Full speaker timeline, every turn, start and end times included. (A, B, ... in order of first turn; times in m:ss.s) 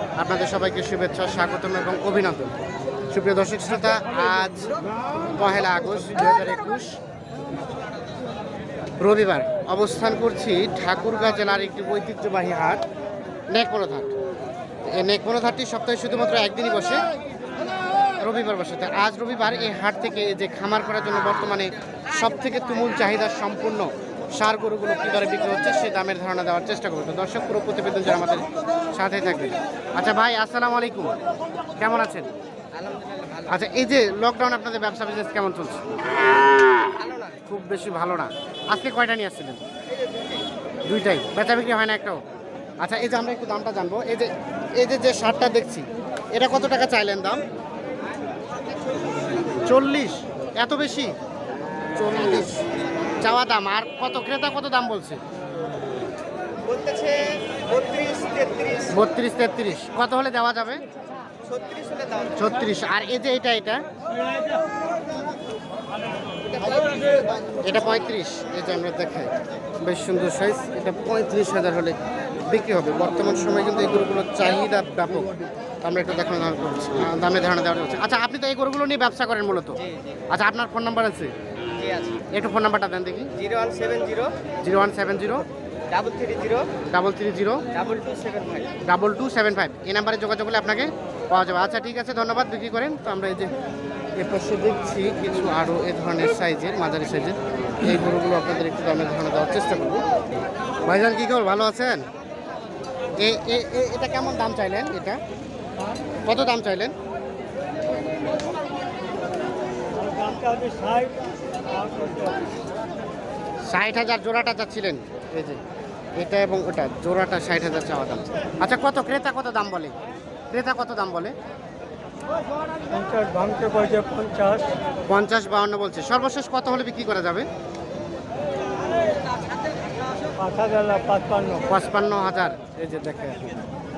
0:00.2-0:02.5 A
0:03.1-0:04.7 A
0:05.3-0:07.0 A
0:09.0-0:12.8 A
0:13.5-0:14.1 A
0:14.9-0:17.0 A
0:18.2-0:31.1 A
0:31.8-0:32.3 A
0:32.8-0:33.5 B
0:33.5-0:35.8 A
0:37.4-0:39.6 A
0:40.9-0:42.2 A
0:42.8-0:47.4 A
0:49.7-0:51.1 A
0:52.0-0:52.6 A
0:53.2-0:55.2 A
0:56.6-0:59.0 B
0:58.9-1:00.8 A
1:01.4-1:02.5 B
1:02.4-1:03.8 A
1:06.6-1:07.2 B
1:07.6-1:12.0 A
1:12.5-1:15.3 A
1:15.8-1:19.8 A
1:20.3-1:21.3 A
1:21.8-1:22.2 B
1:22.3-1:23.3 A
1:23.4-1:24.3 B
1:24.6-1:25.5 A
1:25.9-1:26.7 B
1:26.9-1:27.6 A
1:27.7-1:28.7 B
1:28.8-1:33.5 A
1:34.2-1:40.0 A
1:40.8-1:42.1 A
1:43.2-1:45.2 A
1:46.2-1:46.9 A
1:50.0-1:51.2 C
1:51.7-1:52.4 C
1:53.7-1:55.6 A
1:56.2-1:59.9 A
2:00.5-2:01.3 A
2:02.9-2:04.7 C
2:05.1-2:07.5 A
2:10.4-2:11.6 C
2:11.5-2:13.6 A